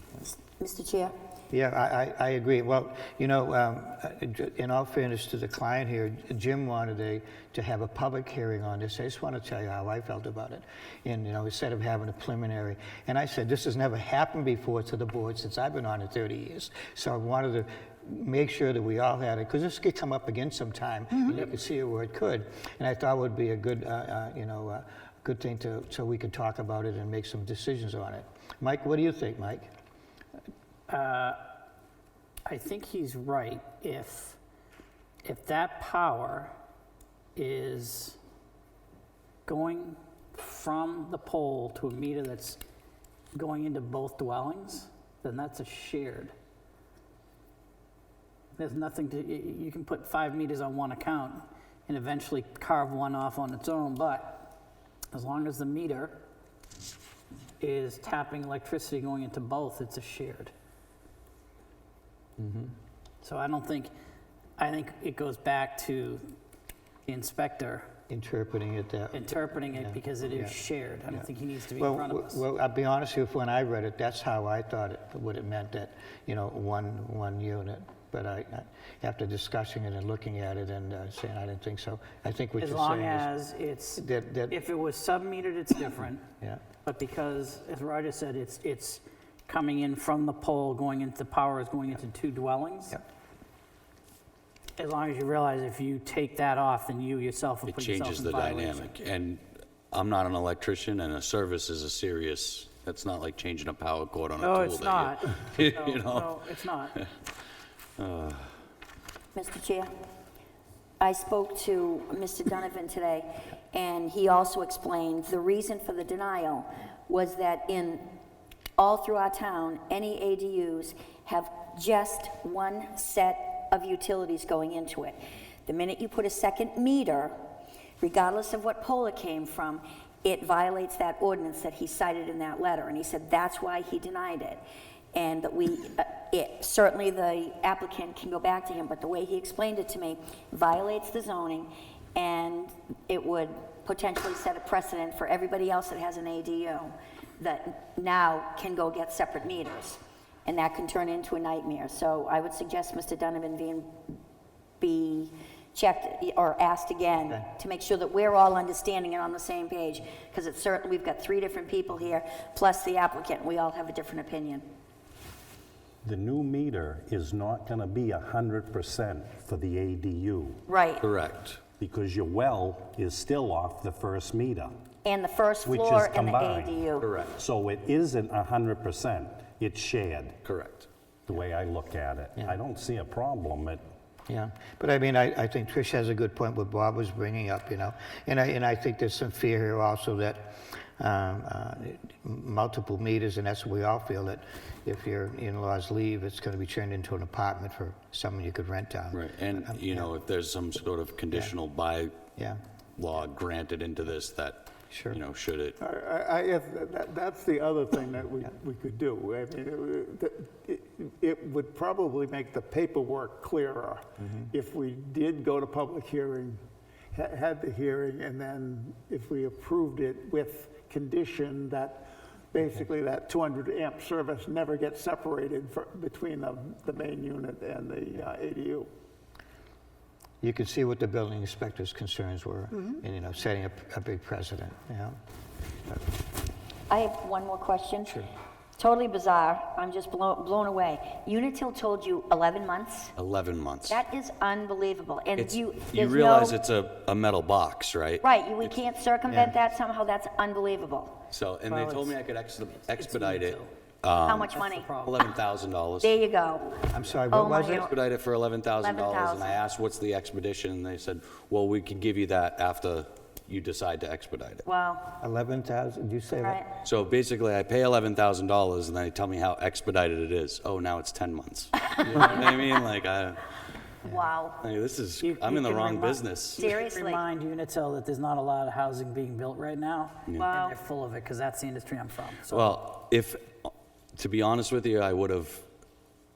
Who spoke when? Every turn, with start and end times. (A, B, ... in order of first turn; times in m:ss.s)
0:00.4-0:01.2 A
0:01.5-0:29.7 B
0:30.9-0:31.5 C
0:32.5-0:34.4 C
0:35.2-0:36.5 C
0:37.4-0:38.2 C
0:39.5-0:42.6 C
0:43.3-0:46.3 C
0:48.6-0:54.5 C
0:55.1-0:56.2 C
0:57.6-1:00.5 C
1:02.4-1:02.7 B
1:03.2-1:03.9 C
1:04.6-1:06.4 C
1:07.1-1:07.9 C
1:08.1-1:23.3 B
1:09.1-1:12.4 C
1:22.6-1:26.3 C
1:24.0-1:24.6 B
1:26.8-1:33.0 C
1:34.8-1:39.0 C
1:37.6-1:46.5 D
1:44.4-1:47.0 C
1:48.0-1:48.5 D
1:49.4-1:49.9 A
1:51.0-1:58.0 A
1:58.8-2:07.3 A
2:08.0-2:14.6 A
2:15.1-2:33.9 A
2:34.8-2:44.6 A
2:46.0-2:50.6 E
2:50.7-2:51.1 A
2:51.0-2:51.6 D
2:51.8-2:54.7 E
2:55.0-2:57.1 A
2:55.6-3:00.4 E
2:57.0-2:57.4 D
3:00.4-3:00.9 D
3:01.3-3:03.8 E
3:04.3-3:20.1 B
3:19.1-3:22.2 D
3:22.4-3:22.6 B
3:23.0-3:25.8 D
3:24.9-3:25.2 B
3:25.8-3:48.9 F
3:50.4-3:55.2 B
3:56.9-3:58.2 A
3:58.8-4:03.2 A
4:03.2-4:04.0 D
4:03.9-4:06.6 A
4:05.4-4:08.7 D
4:08.2-4:11.2 A
4:09.3-4:09.6 B
4:11.3-4:16.1 D
4:11.7-4:12.2 C
4:12.9-4:13.8 C
4:14.2-4:14.9 A
4:14.4-4:15.3 C
4:16.0-4:17.9 A
4:16.9-4:17.9 B
4:17.3-4:24.6 D
4:18.8-4:19.6 A
4:24.7-4:25.2 A
4:25.2-4:26.6 B
4:26.4-4:26.7 A
4:26.8-4:33.4 D
4:34.0-4:34.6 A
4:34.6-4:36.6 D
4:35.2-4:42.8 C
4:36.6-4:37.2 A
4:40.4-4:40.7 A
4:42.5-4:45.7 D